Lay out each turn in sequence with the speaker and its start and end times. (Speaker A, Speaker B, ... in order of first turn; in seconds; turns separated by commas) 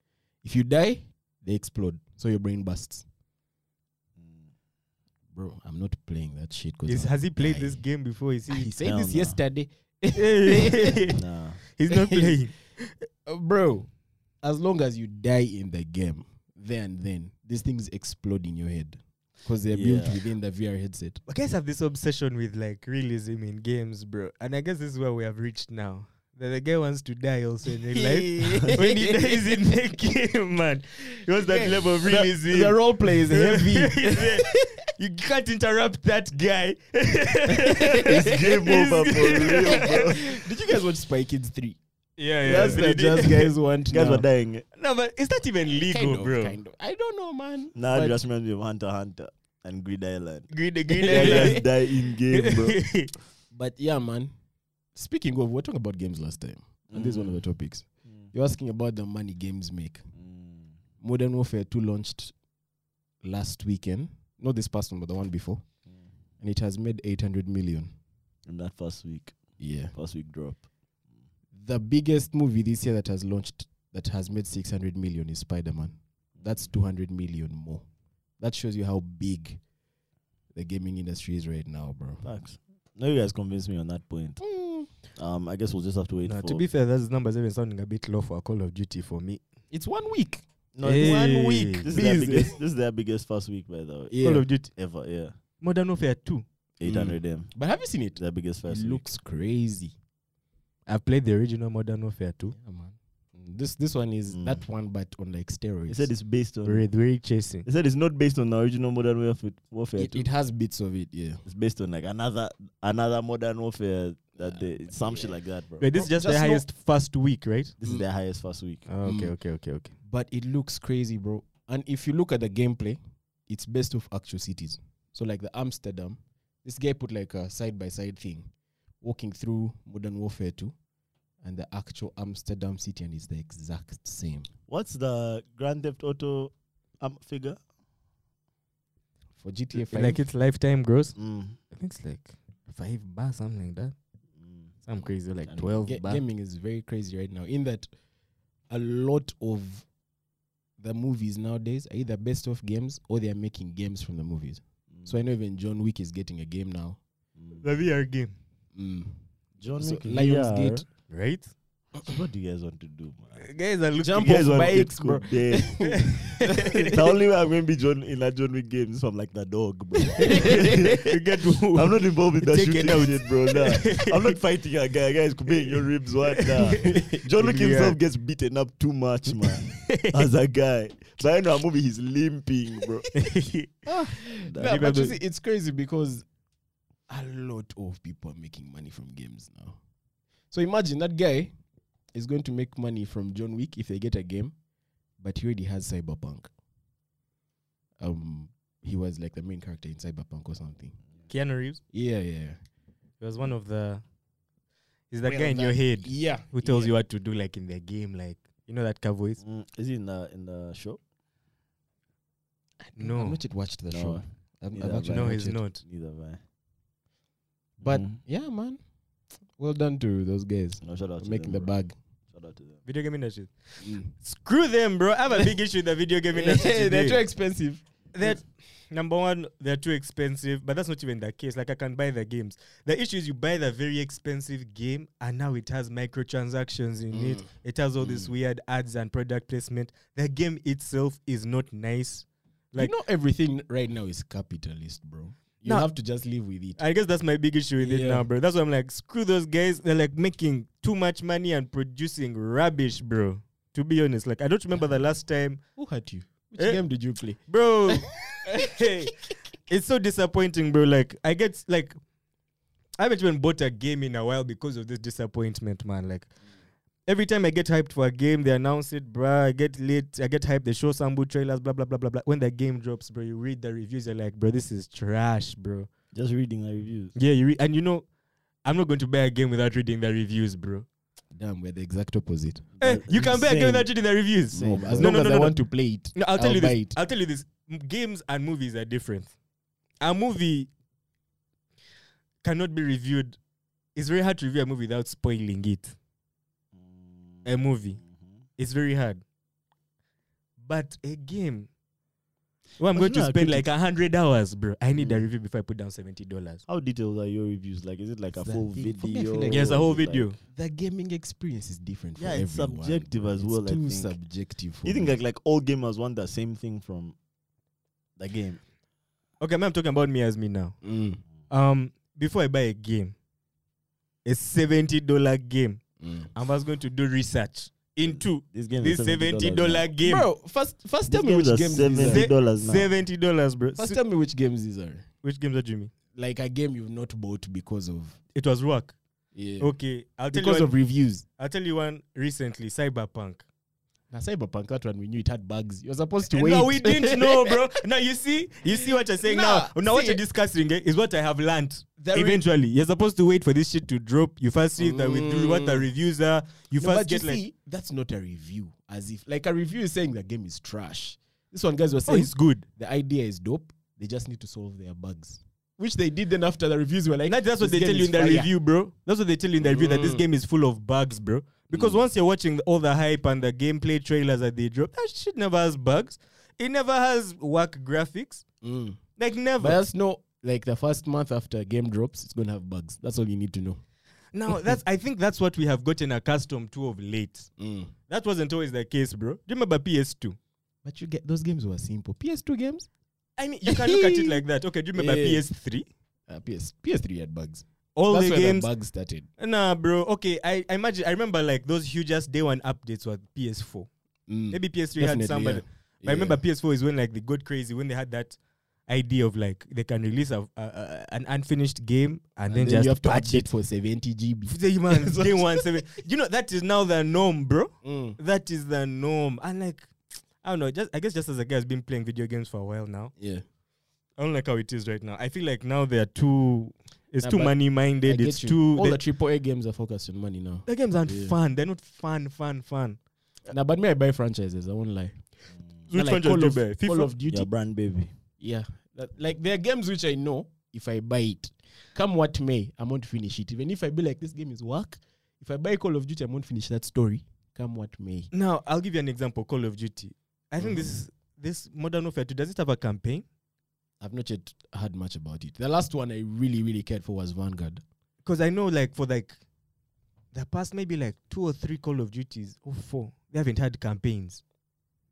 Speaker A: 0.4-3.0, Speaker B: 4.2-4.5, Speaker A: 5.3-7.8, Speaker C: 6.9-8.7, Speaker A: 8.5-11.2, Speaker B: 8.8-9.4, Speaker C: 10.2-11.2, Speaker B: 11.1-11.6, Speaker C: 11.8-12.6, Speaker A: 11.9-12.5, Speaker A: 13.3-13.9, Speaker A: 14.4-21.2, Speaker B: 19.7-20.2, Speaker C: 21.3-40.1, Speaker A: 27.9-29.6, Speaker A: 31.3-34.7, Speaker A: 37.6-38.5, Speaker B: 38.1-40.2, Speaker A: 39.4-41.8, Speaker C: 42.2-43.5, Speaker A: 42.4-44.3, Speaker B: 42.5-43.1, Speaker B: 43.9-44.6, Speaker C: 44.8-46.6, Speaker A: 45.8-48.2, Speaker B: 47.8-50.5, Speaker C: 50.5-51.7, Speaker A: 50.9-51.6, Speaker B: 51.0-52.8, Speaker C: 52.3-53.1, Speaker A: 53.5-54.3, Speaker A: 55.0-60.1, Speaker B: 56.9-57.5, Speaker B: 60.2-60.7, Speaker A: 61.0-62.4, Speaker A: 63.2-65.7, Speaker A: 66.4-67.9, Speaker B: 68.5-69.4, Speaker A: 69.6-70.0, Speaker B: 69.9-70.6, Speaker A: 71.5-77.9, Speaker A: 78.4-79.6, Speaker A: 80.5-82.3, Speaker B: 82.2-84.4, Speaker A: 84.4-84.9, Speaker B: 85.2-86.7, Speaker C: 86.3-89.4, Speaker A: 89.7-90.4, Speaker B: 90.8-95.3, Speaker C: 90.8-91.9, Speaker A: 91.9-92.5, Speaker A: 94.1-94.5, Speaker C: 94.2-94.7, Speaker C: 95.6-96.5, Speaker B: 96.8-97.5, Speaker A: 96.8-100.0, Speaker B: 98.2-99.1, Speaker C: 100.9-102.6, Speaker A: 102.5-106.1, Speaker B: 104.3-104.6, Speaker B: 105.9-106.9, Speaker C: 106.7-107.7, Speaker B: 107.7-110.3, Speaker A: 110.0-111.4, Speaker B: 111.5-115.9, Speaker A: 114.4-115.3, Speaker C: 115.8-117.8, Speaker A: 115.9-116.7, Speaker B: 117.8-118.9, Speaker C: 118.9-119.9, Speaker A: 119.0-119.4, Speaker A: 120.0-130.8, Speaker A: 131.4-134.5, Speaker B: 134.7-137.6, Speaker A: 139.4-140.2, Speaker C: 139.9-143.9, Speaker B: 141.2-141.6, Speaker B: 144.4-144.7, Speaker C: 144.9-146.2, Speaker A: 145.8-147.9, Speaker A: 148.7-149.9, Speaker A: 150.8-157.0, Speaker B: 154.9-155.2, Speaker C: 157.6-158.4, Speaker A: 158.7-159.2, Speaker B: 159.6-160.9, Speaker A: 159.8-160.8, Speaker C: 161.1-161.5, Speaker B: 162.0-163.4, Speaker C: 163.4-164.5, Speaker A: 164.0-167.0, Speaker B: 164.2-165.7, Speaker C: 165.8-166.9, Speaker B: 166.9-171.2, Speaker A: 170.2-170.7, Speaker C: 170.2-174.4, Speaker B: 171.7-183.1, Speaker C: 176.5-178.0, Speaker A: 176.8-177.2, Speaker C: 179.7-180.3, Speaker C: 183.1-183.9, Speaker A: 183.9-186.2, Speaker B: 184.4-184.8, Speaker C: 184.6-185.2, Speaker A: 187.1-189.8, Speaker A: 190.5-191.5, Speaker A: 192.1-194.6, Speaker A: 195.2-196.5, Speaker A: 198.0-201.0, Speaker C: 201.3-201.8, Speaker A: 201.9-202.6, Speaker C: 203.2-204.0, Speaker C: 205.1-209.4, Speaker A: 205.2-206.9, Speaker B: 209.4-211.0, Speaker A: 212.8-215.6, Speaker C: 213.0-213.4, Speaker B: 213.9-216.4, Speaker C: 215.1-215.8, Speaker A: 217.8-218.8, Speaker B: 217.8-218.2, Speaker A: 219.5-222.0, Speaker B: 220.8-221.8, Speaker B: 222.3-222.8, Speaker C: 222.9-227.2, Speaker A: 223.8-224.2, Speaker A: 226.3-228.4, Speaker C: 228.1-242.9, Speaker A: 237.1-237.4, Speaker A: 242.8-246.8, Speaker C: 245.7-245.9, Speaker C: 246.8-255.6, Speaker A: 247.8-248.3, Speaker A: 255.8-259.1, Speaker C: 256.6-256.9, Speaker C: 257.5-259.1, Speaker C: 259.7-262.0, Speaker C: 263.0-266.3, Speaker C: 267.1-275.9, Speaker B: 276.1-277.1, Speaker C: 277.2-278.1, Speaker C: 278.6-280.9, Speaker A: 281.4-282.7, Speaker B: 282.8-283.9, Speaker C: 282.8-285.6, Speaker A: 284.5-287.0, Speaker B: 284.6-285.1, Speaker C: 286.1-289.3, Speaker C: 290.0-290.7, Speaker C: 292.4-293.4, Speaker C: 293.9-295.9, Speaker C: 297.4-298.0, Speaker C: 298.6-299.2, Speaker C: 300.6-301.7, Speaker C: 302.8-306.6, Speaker B: 302.9-303.7, Speaker B: 305.0-305.3, Speaker B: 306.7-310.4, Speaker A: 308.3-309.8, Speaker C: 309.5-310.4, Speaker A: 310.5-315.1, Speaker B: 312.2-314.2, Speaker B: 314.8-317.1, Speaker B: 318.2-318.6, Speaker C: 319.4-320.8, Speaker A: 320.8-321.2, Speaker C: 321.5-323.1, Speaker C: 324.2-325.8, Speaker A: 326.0-326.3, Speaker C: 326.3-330.3, Speaker B: 328.1-329.9, Speaker A: 330.0-332.3, Speaker B: 331.1-332.9, Speaker C: 332.0-334.0, Speaker A: 333.8-335.1, Speaker C: 335.2-335.9, Speaker A: 336.1-338.2, Speaker C: 338.3-338.9, Speaker A: 339.4-339.8, Speaker C: 339.6-340.8, Speaker A: 340.3-341.2, Speaker C: 341.4-343.4, Speaker A: 344.1-347.6, Speaker C: 346.3-357.4, Speaker A: 348.7-350.2, Speaker A: 352.0-352.4, Speaker A: 354.8-355.9, Speaker A: 356.8-368.5, Speaker C: 362.1-362.6, Speaker C: 367.3-378.4, Speaker A: 369.6-370.3, Speaker A: 371.7-372.0, Speaker A: 378.6-379.0, Speaker C: 379.2-379.8, Speaker A: 379.6-383.8, Speaker C: 384.3-387.5, Speaker A: 387.6-387.9, Speaker C: 388.1-390.4, Speaker A: 390.8-392.9, Speaker C: 393.4-395.9, Speaker A: 393.7-394.4, Speaker A: 394.9-395.5, Speaker A: 396.3-399.3, Speaker C: 398.0-398.7, Speaker C: 399.4-403.9, Speaker A: 404.3-406.4, Speaker C: 404.5-413.5, Speaker A: 412.5-415.7, Speaker C: 414.5-419.9, Speaker A: 417.8-418.2, Speaker C: 420.4-423.1, Speaker A: 423.2-423.4, Speaker C: 424.2-429.0, Speaker A: 427.2-431.4, Speaker C: 430.7-433.0, Speaker A: 433.5-435.2, Speaker C: 435.9-437.1, Speaker A: 435.9-437.5, Speaker B: 437.3-438.1, Speaker A: 438.4-448.3, Speaker C: 448.3-453.2, Speaker A: 450.6-450.9, Speaker A: 454.0-457.8, Speaker C: 458.2-459.4, Speaker C: 460.3-464.4